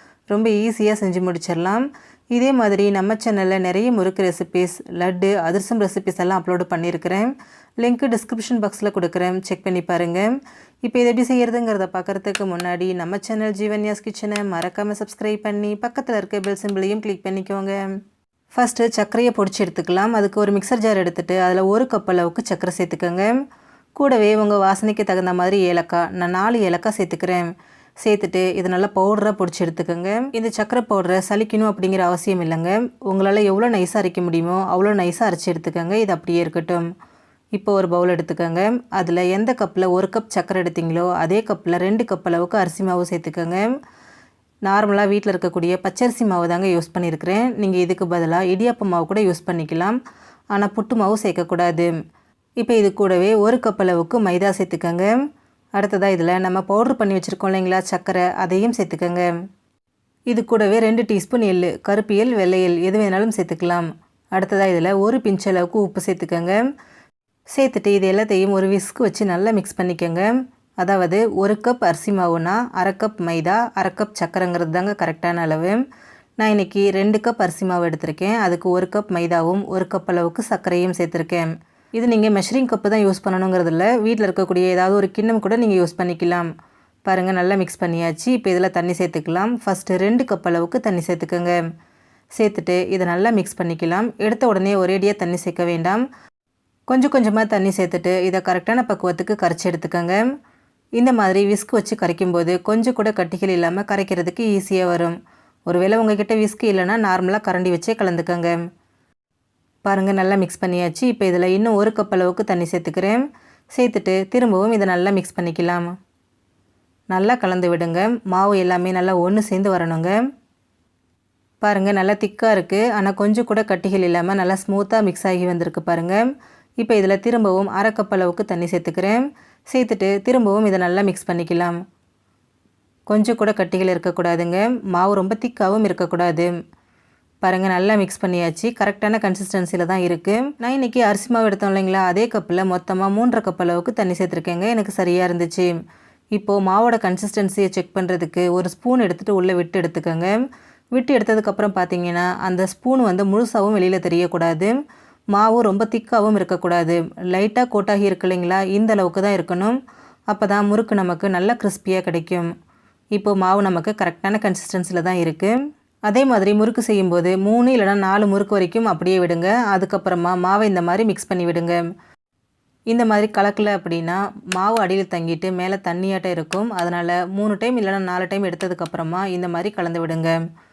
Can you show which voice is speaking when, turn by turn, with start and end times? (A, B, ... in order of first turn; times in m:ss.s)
0:00.3-0:17.9 A
0:18.5-0:23.4 A
0:24.0-0:27.5 A
0:28.0-0:36.9 A
0:37.6-0:43.7 A
0:44.7-0:50.0 A
0:50.5-0:51.9 A
0:52.6-0:55.2 A
0:55.8-0:59.3 A
1:00.3-1:06.6 A
1:07.5-1:15.8 A
1:16.4-1:26.5 A
1:27.1-1:31.6 A
1:32.4-1:36.0 A
1:36.9-1:40.2 A
1:41.0-1:45.2 A
1:45.7-1:48.6 A
1:49.8-1:53.2 A
1:53.8-1:55.9 A
1:57.1-2:00.2 A
2:01.6-2:06.3 A
2:06.8-2:11.8 A
2:13.1-2:16.5 A
2:17.4-2:25.7 A
2:26.4-2:30.4 A
2:30.9-2:34.7 A
2:35.3-2:39.8 A
2:40.3-2:42.5 A
2:43.2-2:51.8 A
2:52.9-3:00.4 A